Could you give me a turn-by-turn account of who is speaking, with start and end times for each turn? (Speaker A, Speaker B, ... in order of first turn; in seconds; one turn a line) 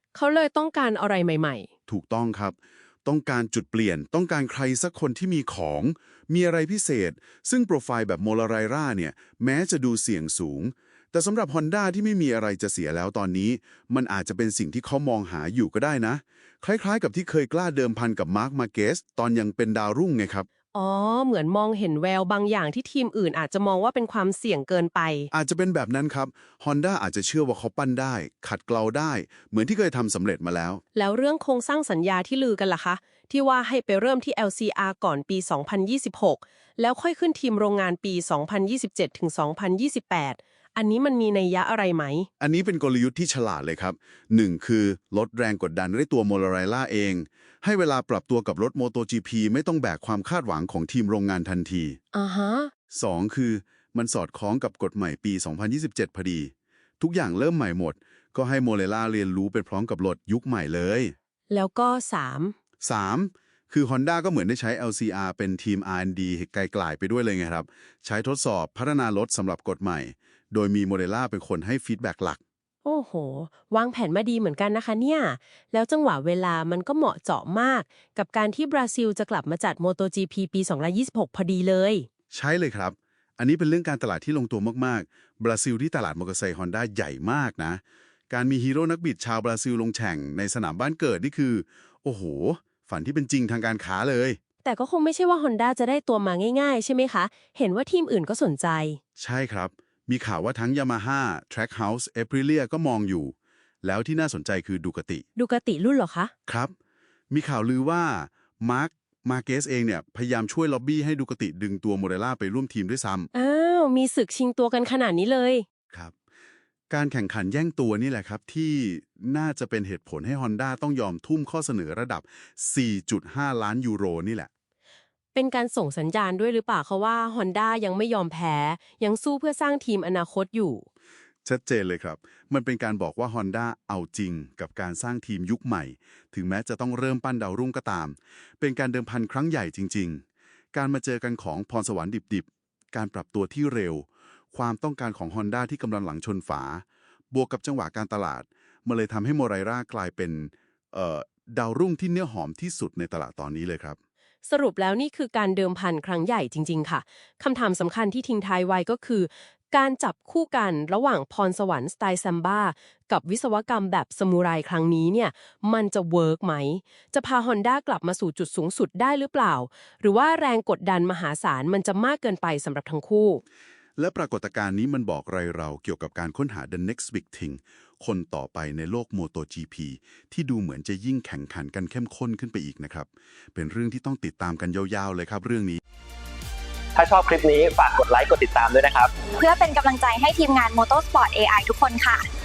Speaker A: 0.1-1.7
Speaker B: 1.9-20.5
Speaker A: 20.7-25.3
Speaker B: 25.3-30.8
Speaker A: 30.9-42.3
Speaker B: 42.4-52.0
Speaker A: 52.1-52.7
Speaker B: 52.9-61.1
Speaker A: 61.5-62.5
Speaker B: 62.8-72.4
Speaker A: 72.8-82.1
Speaker B: 82.3-94.4
Speaker A: 94.6-99.0
Speaker B: 99.2-105.2
Speaker A: 105.3-106.3
Speaker B: 106.5-106.7
Speaker B: 107.3-113.3
Speaker A: 113.3-115.6
Speaker B: 116.9-124.5
Speaker A: 125.3-130.8
Speaker B: 131.4-154.0
Speaker A: 154.4-173.4
Speaker B: 174.0-185.8
Speaker C: 186.9-189.2
Speaker D: 189.3-192.2